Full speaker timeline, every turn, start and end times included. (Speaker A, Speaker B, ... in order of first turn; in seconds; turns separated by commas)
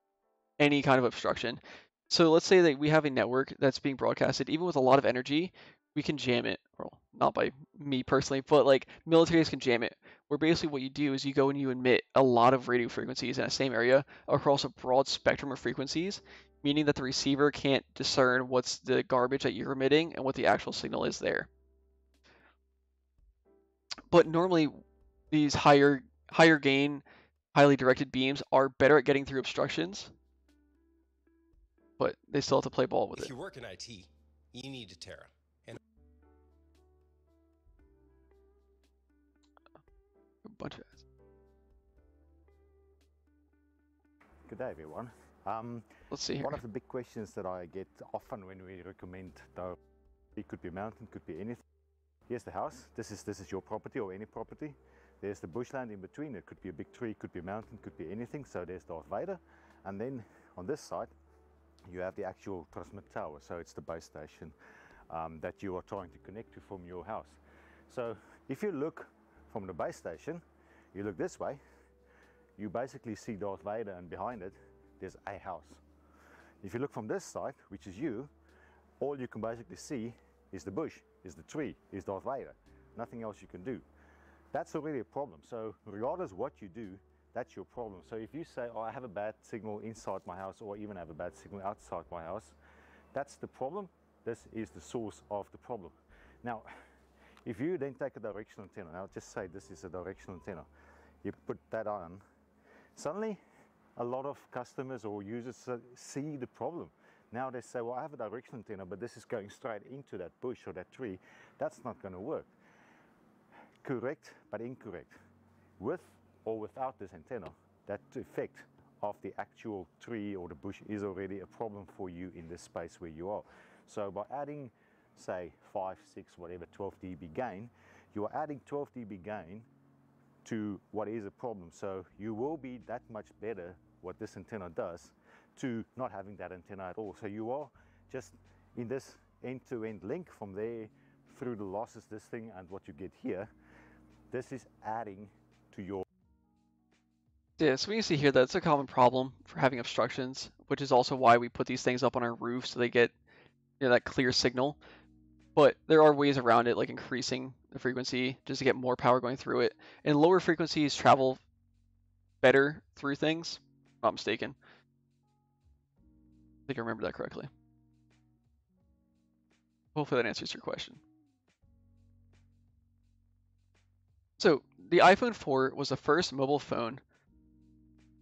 Speaker A: 0.6-21.5, Speaker A: 24.1-24.8, Speaker A: 25.3-30.1, Speaker A: 32.0-33.3, Speaker B: 33.1-35.8, Speaker A: 40.4-41.0, Speaker C: 44.5-45.9, Speaker A: 46.1-46.6, Speaker C: 46.4-49.8, Speaker C: 50.4-51.6, Speaker C: 52.3-61.1, Speaker C: 61.9-64.5, Speaker C: 65.1-70.4, Speaker C: 70.9-71.6, Speaker C: 72.6-75.8, Speaker C: 76.6-78.3, Speaker C: 79.0-83.8, Speaker C: 84.5-92.5, Speaker C: 93.1-96.7, Speaker C: 97.4-100.7, Speaker C: 101.2-102.2, Speaker C: 102.9-103.4, Speaker C: 104.0-112.5, Speaker C: 113.8-115.2, Speaker C: 115.8-129.7, Speaker C: 130.4-143.5, Speaker C: 144.3-146.0, Speaker A: 147.6-153.1, Speaker A: 153.8-154.8, Speaker A: 155.6-161.4, Speaker A: 162.4-164.6, Speaker A: 166.7-167.5, Speaker A: 169.9-171.0, Speaker A: 174.4-177.0